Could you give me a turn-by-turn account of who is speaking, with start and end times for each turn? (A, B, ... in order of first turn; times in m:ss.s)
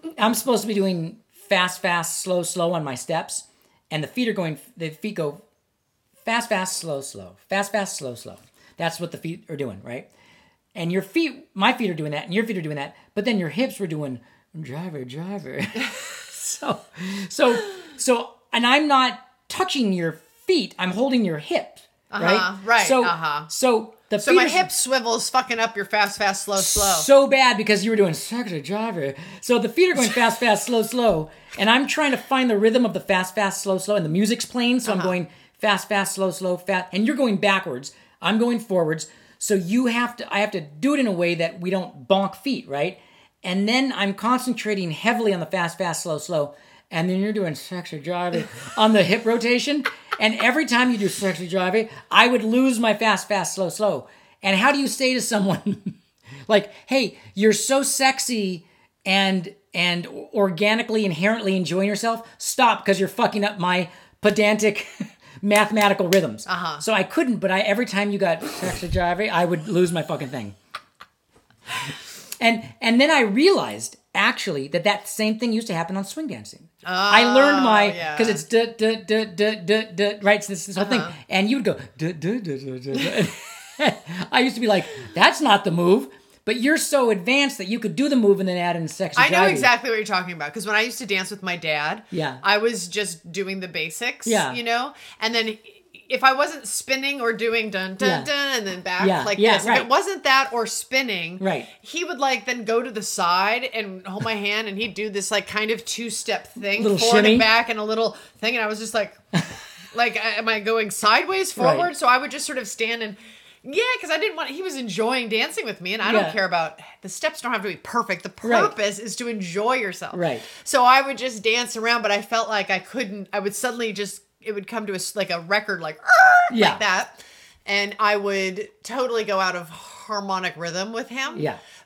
0:00.2-0:05.4 A
0:06.2-0:10.1 A
0:10.8-0:24.7 A
0:22.1-0:23.5 B
0:24.2-0:27.1 B
0:26.6-0:56.0 A
0:34.8-0:35.2 B
0:56.5-1:10.6 A
1:06.5-1:06.8 B
1:12.4-1:29.7 A
1:16.8-1:18.4 B
1:20.8-1:21.2 B
1:29.2-1:49.2 B
1:32.1-1:32.4 A
1:34.2-1:34.6 A
1:38.0-1:38.3 A
1:39.0-1:39.9 A
1:41.4-1:41.7 A
1:46.8-1:47.5 A
1:49.9-2:11.5 B
1:51.6-1:51.9 A
1:56.0-1:56.4 A
1:58.4-1:58.7 A
2:00.1-2:00.5 A
2:06.5-2:06.8 A
2:11.3-2:11.6 A